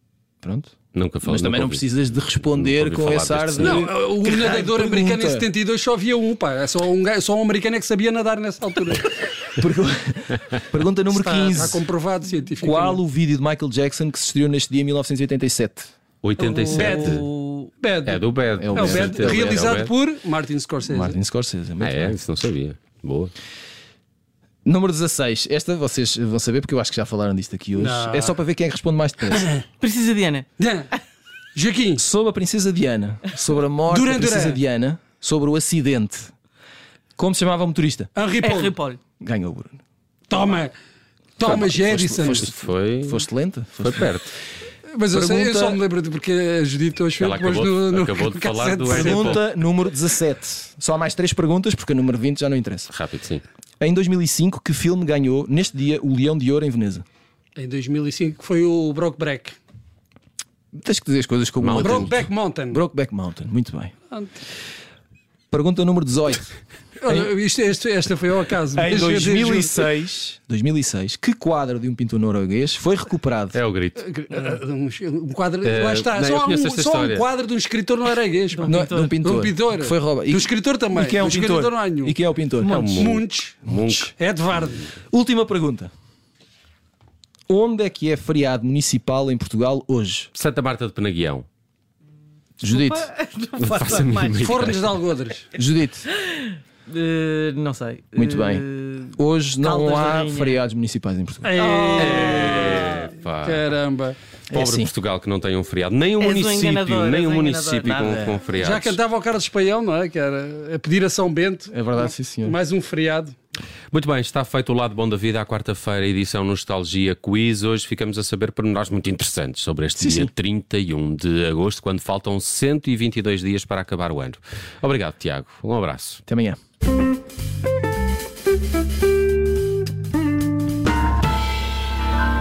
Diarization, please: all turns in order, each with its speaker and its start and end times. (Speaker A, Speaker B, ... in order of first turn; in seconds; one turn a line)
Speaker A: 0.4-5.5
Speaker B: 0.9-3.9
Speaker C: 3.6-9.3
Speaker A: 9.6-11.8
Speaker C: 11.1-13.0
Speaker A: 12.6-15.9
Speaker B: 16.2-17.2
Speaker C: 16.4-17.3
Speaker D: 16.6-17.7
Speaker C: 17.8-21.2
Speaker B: 18.0-19.9
Speaker A: 18.6-19.7
Speaker A: 20.9-22.2
Speaker B: 21.8-23.3
Speaker A: 24.6-29.5
Speaker C: 27.8-28.3
Speaker C: 29.3-29.6
Speaker D: 29.8-30.5
Speaker C: 30.6-30.9
Speaker C: 31.5-32.0
Speaker A: 31.9-36.3
Speaker C: 33.9-34.6
Speaker A: 37.2-38.1
Speaker C: 38.1-38.7
Speaker D: 38.4-39.0
Speaker A: 39.2-39.8
Speaker C: 40.3-40.7
Speaker C: 41.4-42.5
Speaker A: 41.4-44.1
Speaker B: 42.2-44.3
Speaker C: 44.9-49.4
Speaker A: 45.1-45.8
Speaker B: 47.2-49.4
Speaker A: 48.9-52.9
Speaker B: 52.9-53.4
Speaker A: 53.8-57.0
Speaker C: 57.5-59.6
Speaker A: 60.7-63.9
Speaker B: 61.6-62.2
Speaker C: 61.8-62.8
Speaker A: 65.5-66.5
Speaker C: 67.0-69.9
Speaker A: 68.7-73.6
Speaker B: 73.5-74.0
Speaker C: 74.0-84.9
Speaker B: 75.6-77.3
Speaker D: 78.5-79.2
Speaker A: 78.6-82.9
Speaker B: 82.6-84.1
Speaker A: 85.1-85.9
Speaker A: 87.5-90.3
Speaker B: 90.3-91.5
Speaker A: 92.6-93.1
Speaker D: 92.7-94.8
Speaker B: 93.6-94.9
Speaker C: 94.4-95.5
Speaker A: 95.5-96.1
Speaker D: 96.0-100.6
Speaker A: 98.1-101.6
Speaker C: 101.4-104.2
Speaker D: 101.5-102.7
Speaker B: 102.0-103.7
Speaker A: 104.5-104.9
Speaker B: 104.5-109.0
Speaker D: 106.2-108.1
Speaker A: 107.9-108.4
Speaker C: 108.5-113.3
Speaker A: 111.7-112.6
Speaker B: 113.9-126.2
Speaker A: 120.0-120.3
Speaker A: 126.3-126.6